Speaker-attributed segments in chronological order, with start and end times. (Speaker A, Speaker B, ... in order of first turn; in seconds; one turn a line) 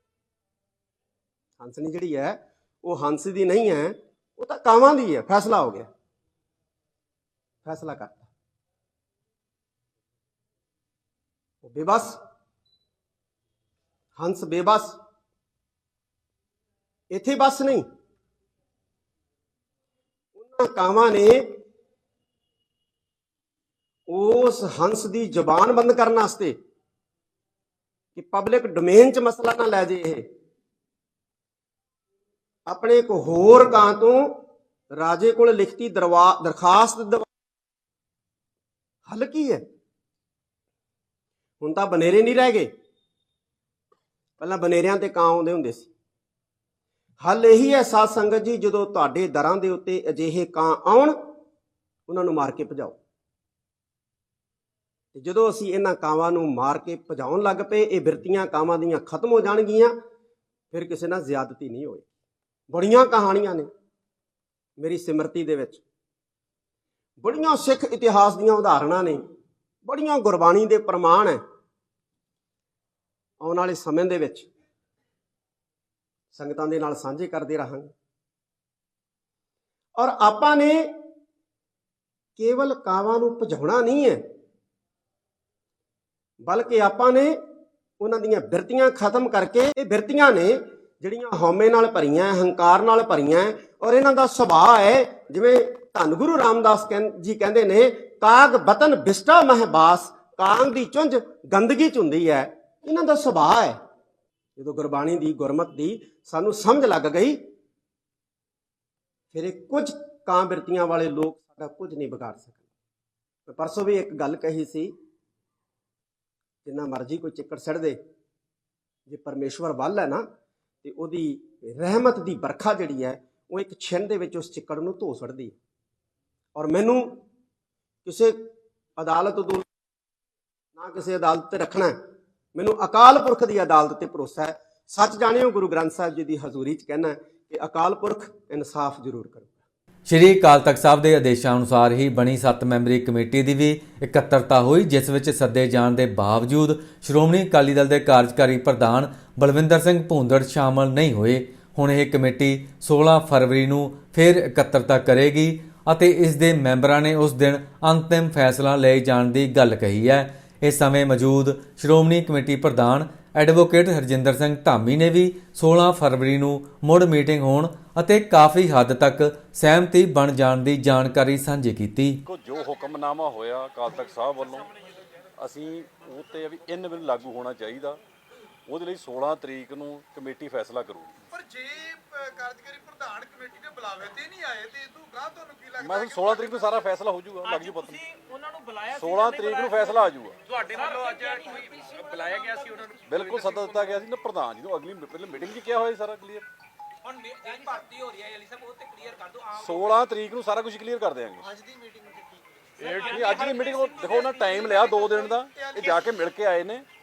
Speaker A: 1.6-5.9
Speaker A: 7.7-8.3
Speaker A: 11.6-12.2
Speaker A: 14.2-15.0
Speaker A: 17.1-17.8
Speaker A: 20.4-21.6
Speaker A: 24.1-26.6
Speaker A: 28.1-30.2
Speaker A: 32.7-34.4
Speaker A: 34.9-37.3
Speaker A: 39.1-39.6
Speaker A: 41.6-42.7
Speaker A: 44.4-45.9
Speaker A: 47.2-51.2
Speaker A: 52.1-53.0
Speaker A: 55.1-59.9
Speaker A: 60.7-62.1
Speaker A: 62.7-63.7
Speaker A: 64.8-65.8
Speaker A: 67.2-69.2
Speaker A: 69.8-71.4
Speaker A: 73.4-74.5
Speaker A: 76.3-77.9
Speaker A: 80.0-80.9
Speaker A: 82.4-84.2
Speaker A: 86.4-87.4
Speaker A: 88.0-103.8
Speaker A: 104.6-107.4
Speaker A: 109.3-112.6
Speaker A: 113.5-114.9
Speaker A: 116.6-118.0
Speaker A: 119.1-120.2
Speaker A: 120.8-125.6
Speaker A: 126.5-127.2
Speaker A: 128.1-128.4
Speaker A: 129.0-129.7
Speaker A: 130.8-131.9
Speaker A: 132.6-139.6
Speaker B: 140.1-172.2
Speaker C: 172.3-174.7
Speaker C: 175.4-178.0
Speaker C: 178.7-181.2
Speaker D: 181.3-186.3
Speaker C: 185.8-188.0
Speaker E: 187.5-193.9
Speaker C: 188.9-190.4
Speaker C: 193.1-196.5
Speaker E: 197.1-199.8
Speaker C: 199.6-201.5
Speaker E: 201.6-202.2
Speaker C: 202.8-206.9
Speaker E: 202.8-204.9